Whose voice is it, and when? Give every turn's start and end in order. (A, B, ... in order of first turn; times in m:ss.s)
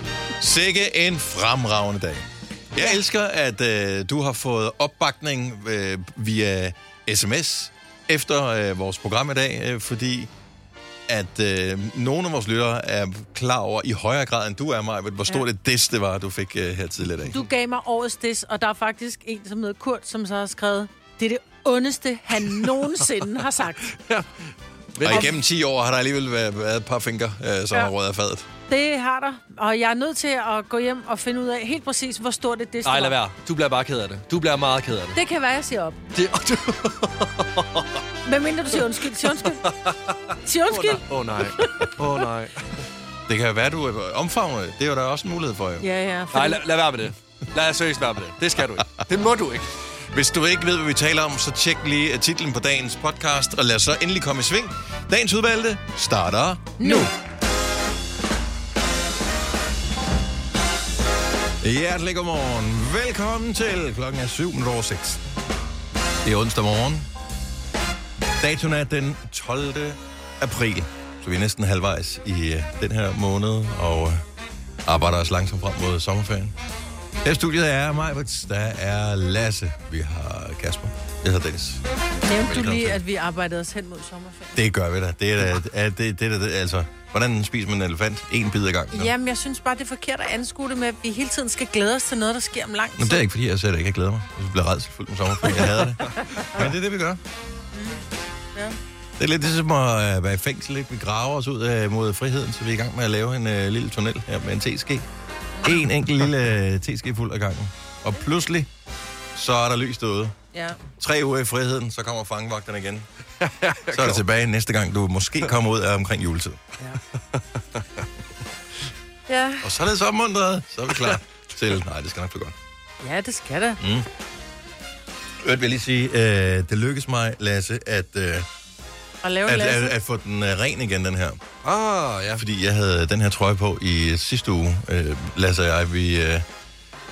0:00.4-0:10.3 A
0:11.1-0:17.4 A
0:17.3-0:23.8 B
0:23.9-0:24.3 C
0:24.9-0:25.3 C
0:25.0-0:28.5 A
0:25.1-0:25.3 B
0:28.7-0:33.2 B
0:32.8-0:35.2 C
0:35.1-0:36.0 B
0:36.1-0:37.9 C
0:38.2-0:39.6 B
0:39.3-0:40.1 C
0:40.4-0:41.0 B
0:40.7-0:42.7 C
0:43.3-0:45.8 A
0:45.8-0:46.6 B
0:46.3-0:49.7 C
0:50.1-0:57.1 A
0:56.8-0:57.1 B
1:01.6-1:05.2 A
1:06.2-1:07.1 A
1:08.4-1:14.2 A
1:14.8-1:16.5 A
1:17.2-1:21.8 A
1:22.2-1:24.6 B
1:22.4-1:23.0 A
1:24.5-1:29.1 A
1:28.9-1:33.2 B
1:33.0-1:37.2 A
1:37.7-1:38.8 B
1:39.2-1:45.0 A
1:45.6-1:45.8 B
1:45.6-1:48.7 A
1:49.3-1:50.3 A
1:50.5-1:50.8 B
1:51.0-1:53.0 A
1:53.4-1:54.2 C
1:53.9-1:56.6 A
1:59.3-1:59.6 B
1:59.6-2:02.5 A
2:03.0-2:03.8 B
2:03.8-2:04.1 A
2:05.4-2:08.5 A
2:09.2-2:09.9 B
2:09.5-2:11.4 A
2:11.6-2:12.4 C
2:12.4-2:16.4 A